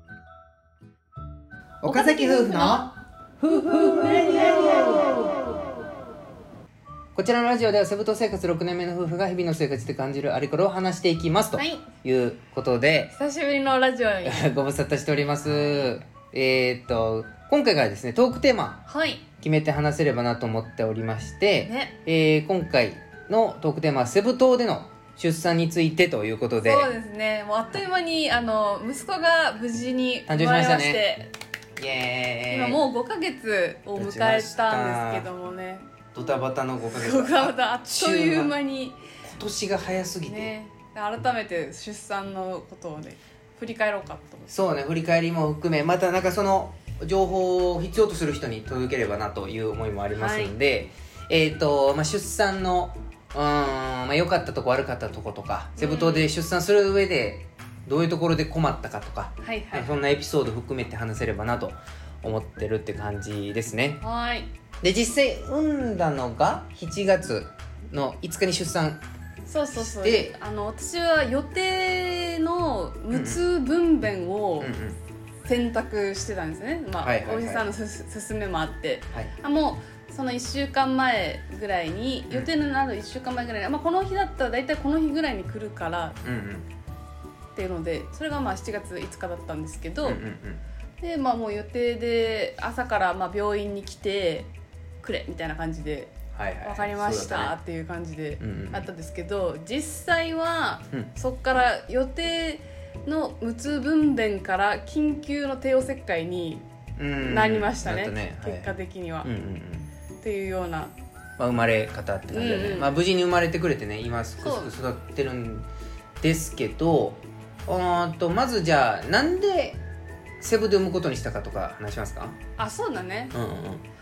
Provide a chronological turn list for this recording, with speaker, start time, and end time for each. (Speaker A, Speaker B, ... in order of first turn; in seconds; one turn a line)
Speaker A: 1.8-5.3
Speaker B: 1.8-2.9
Speaker B: 3.9-4.7
Speaker A: 7.1-13.1
Speaker B: 11.6-11.8
Speaker B: 13.1-14.4
Speaker A: 14.2-18.8
Speaker B: 18.9-19.2
Speaker A: 19.4-26.9
Speaker B: 21.6-21.9
Speaker B: 26.6-31.3
Speaker A: 30.3-31.0
Speaker A: 31.8-32.8
Speaker B: 32.5-35.9
Speaker A: 34.0-35.3
Speaker A: 36.1-38.5
Speaker B: 36.9-39.0
Speaker A: 39.2-40.5
Speaker B: 40.2-44.5
Speaker A: 44.5-64.0
Speaker B: 50.1-50.5
Speaker B: 55.8-56.3
Speaker B: 59.4-59.9
Speaker B: 64.0-64.5
Speaker A: 64.8-69.0
Speaker B: 69.5-74.7
Speaker A: 69.7-70.3
Speaker A: 73.1-73.4
Speaker A: 74.6-75.0
Speaker B: 75.4-86.2
Speaker A: 77.0-77.7
Speaker A: 86.2-86.7
Speaker B: 87.5-90.2
Speaker A: 90.0-90.6
Speaker B: 91.0-94.5
Speaker B: 95.0-106.6
Speaker A: 96.3-97.5
Speaker A: 98.4-98.9
Speaker A: 107.0-109.9
Speaker B: 107.2-109.3
Speaker B: 110.2-110.9
Speaker A: 111.4-115.7
Speaker B: 112.3-112.9
Speaker B: 114.4-114.7
Speaker A: 116.2-119.8
Speaker A: 120.4-122.4
Speaker B: 122.6-123.3
Speaker A: 123.3-123.8